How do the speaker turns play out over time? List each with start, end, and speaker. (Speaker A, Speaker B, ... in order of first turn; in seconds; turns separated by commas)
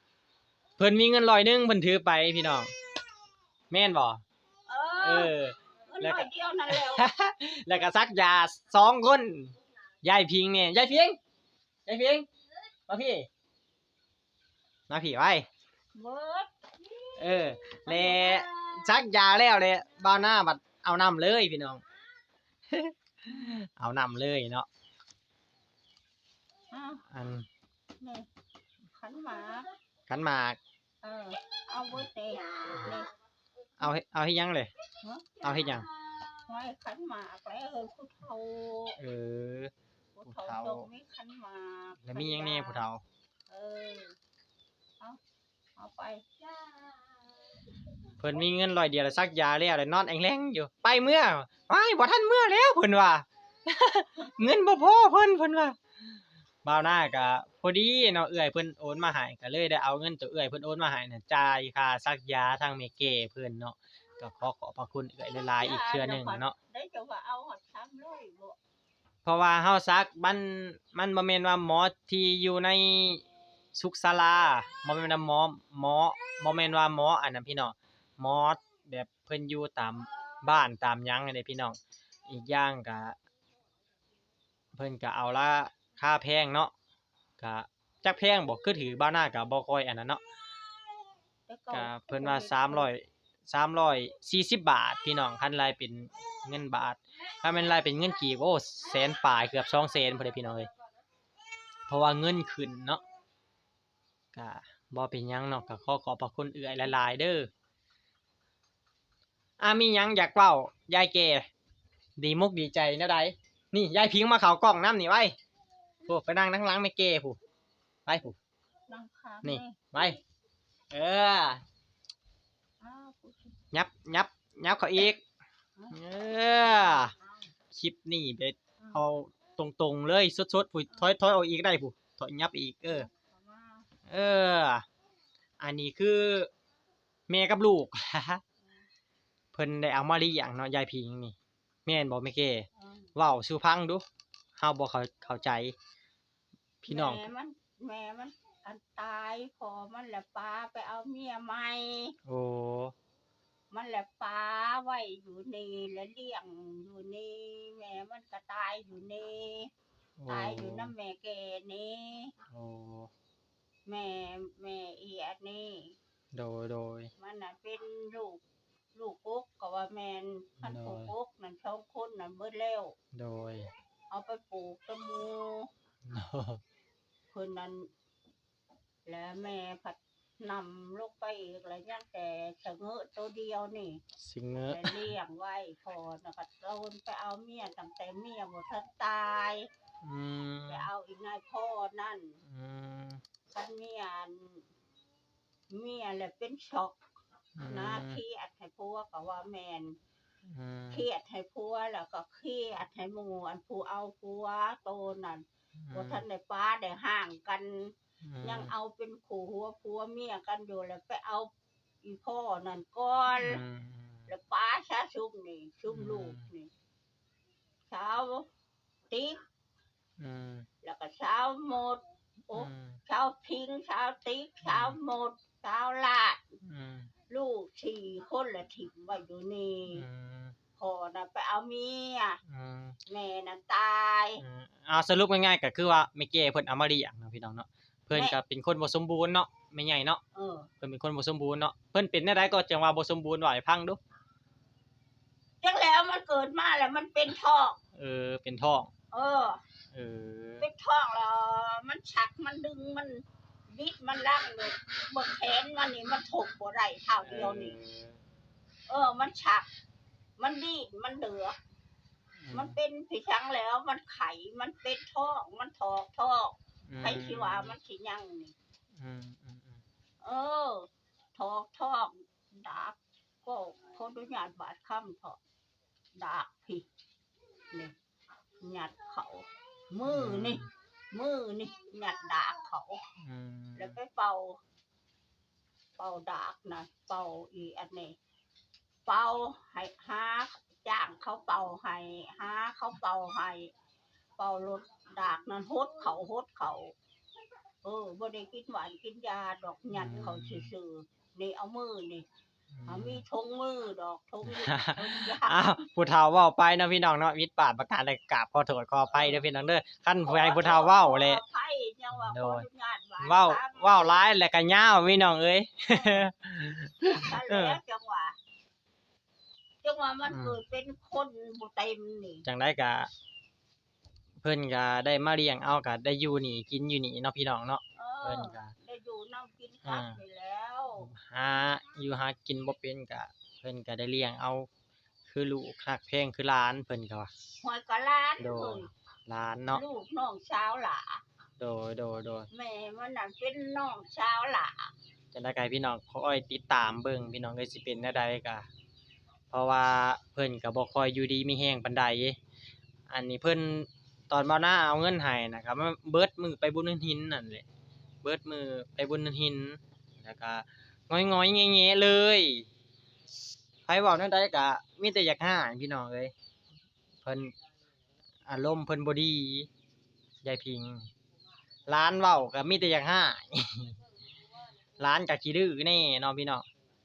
Speaker A: 0.8-2.7, Speaker A: 3.7-4.2, Speaker B: 4.7-5.3, Speaker A: 5.0-11.2, Speaker B: 5.9-7.1, Speaker A: 11.8-12.3, Speaker A: 12.9-13.3, Speaker A: 14.9-15.4, Speaker B: 15.9-16.5, Speaker A: 17.2-21.8, Speaker B: 17.9-18.8, Speaker A: 22.7-24.7, Speaker B: 23.3-23.6, Speaker B: 26.7-27.0, Speaker A: 27.1-27.5, Speaker B: 28.0-28.3, Speaker B: 28.9-29.7, Speaker A: 30.1-30.6, Speaker B: 31.0-33.1, Speaker A: 33.8-34.7, Speaker B: 35.0-35.4, Speaker A: 35.4-35.9, Speaker B: 36.5-39.0, Speaker A: 39.0-39.7, Speaker B: 40.1-42.8, Speaker A: 40.2-40.9, Speaker A: 42.0-43.0, Speaker B: 43.5-44.1, Speaker B: 45.8-46.2, Speaker A: 48.2-55.8, Speaker A: 56.6-66.5, Speaker B: 65.6-68.6, Speaker A: 69.2-73.2, Speaker A: 73.7-83.2, Speaker A: 84.7-86.7, Speaker A: 87.4-90.2, Speaker B: 91.5-92.9, Speaker A: 91.7-100.7, Speaker A: 101.9-103.0, Speaker A: 104.3-107.5, Speaker A: 109.6-111.5, Speaker A: 112.2-115.3, Speaker A: 116.0-117.4, Speaker A: 118.0-118.4, Speaker B: 118.9-120.2, Speaker A: 119.4-120.2, Speaker A: 120.9-121.6, Speaker B: 122.8-123.5, Speaker A: 123.7-125.2, Speaker A: 125.9-127.1, Speaker B: 126.5-127.5, Speaker A: 127.7-133.1, Speaker B: 132.9-133.9, Speaker A: 134.1-134.8, Speaker A: 135.6-136.5, Speaker A: 137.3-138.4, Speaker A: 139.5-144.0, Speaker B: 142.8-143.1, Speaker A: 144.6-145.7, Speaker A: 146.8-147.2, Speaker B: 146.9-152.2, Speaker A: 152.2-152.9, Speaker B: 153.7-159.7, Speaker A: 160.2-160.9, Speaker B: 160.3-162.3, Speaker A: 162.5-163.1, Speaker B: 163.8-165.9, Speaker A: 166.3-167.1, Speaker B: 167.2-168.4, Speaker B: 168.9-172.9, Speaker A: 170.6-171.1, Speaker A: 173.1-173.7, Speaker B: 174.1-175.7, Speaker A: 176.1-176.6, Speaker B: 177.3-177.9, Speaker B: 179.1-184.0, Speaker A: 184.2-185.0, Speaker B: 184.7-189.7, Speaker A: 190.0-190.9, Speaker B: 190.7-192.4, Speaker A: 192.5-193.2, Speaker B: 193.5-194.6, Speaker B: 195.7-197.0, Speaker A: 197.6-198.2, Speaker B: 197.7-200.0, Speaker A: 200.5-201.0, Speaker B: 200.9-211.5, Speaker A: 205.8-206.2, Speaker A: 208.2-208.7, Speaker B: 212.0-213.6, Speaker A: 213.4-214.3, Speaker B: 214.3-216.7, Speaker A: 215.9-216.4, Speaker B: 217.9-218.5, Speaker B: 219.1-219.4, Speaker A: 220.2-220.7, Speaker B: 220.8-226.5, Speaker A: 222.5-223.0, Speaker A: 224.7-224.9, Speaker A: 226.6-227.1, Speaker B: 227.3-230.0, Speaker A: 229.9-230.5, Speaker B: 230.8-232.4, Speaker A: 232.5-233.0, Speaker B: 233.1-234.4, Speaker A: 234.4-240.2, Speaker B: 240.3-240.7, Speaker A: 240.8-244.0, Speaker B: 245.6-247.8, Speaker A: 247.9-248.9, Speaker B: 249.1-249.6, Speaker A: 249.9-250.6, Speaker B: 250.6-257.8, Speaker A: 257.2-258.1, Speaker B: 258.9-259.7, Speaker B: 260.4-261.6, Speaker A: 262.4-262.8, Speaker B: 262.5-268.5, Speaker A: 266.9-267.7, Speaker A: 269.0-269.8, Speaker B: 270.2-275.4, Speaker B: 276.1-276.9, Speaker B: 278.6-283.0, Speaker A: 280.1-280.7, Speaker A: 283.2-284.0, Speaker B: 283.8-284.6, Speaker B: 286.0-288.1, Speaker B: 289.1-293.7, Speaker B: 294.4-296.9, Speaker B: 297.8-302.3, Speaker A: 299.9-300.7, Speaker A: 302.7-303.2, Speaker B: 302.9-305.7, Speaker A: 304.5-311.4, Speaker B: 310.2-314.2, Speaker A: 312.1-312.6, Speaker A: 313.2-317.8, Speaker B: 317.0-318.4, Speaker B: 319.8-322.4, Speaker A: 320.3-320.6, Speaker A: 322.4-323.1, Speaker A: 324.4-328.7, Speaker B: 327.9-331.1, Speaker A: 329.9-330.2, Speaker A: 331.0-334.7, Speaker A: 335.2-337.3, Speaker B: 337.6-338.9, Speaker A: 338.4-339.8, Speaker B: 339.7-341.2, Speaker A: 341.6-342.5, Speaker B: 342.5-344.9, Speaker A: 345.3-348.7, Speaker A: 349.5-352.4, Speaker A: 353.1-357.6, Speaker A: 358.2-362.7, Speaker A: 363.9-366.3, Speaker A: 367.2-367.5, Speaker A: 368.5-369.7, Speaker A: 370.4-371.1, Speaker A: 371.9-374.0, Speaker A: 375.0-376.6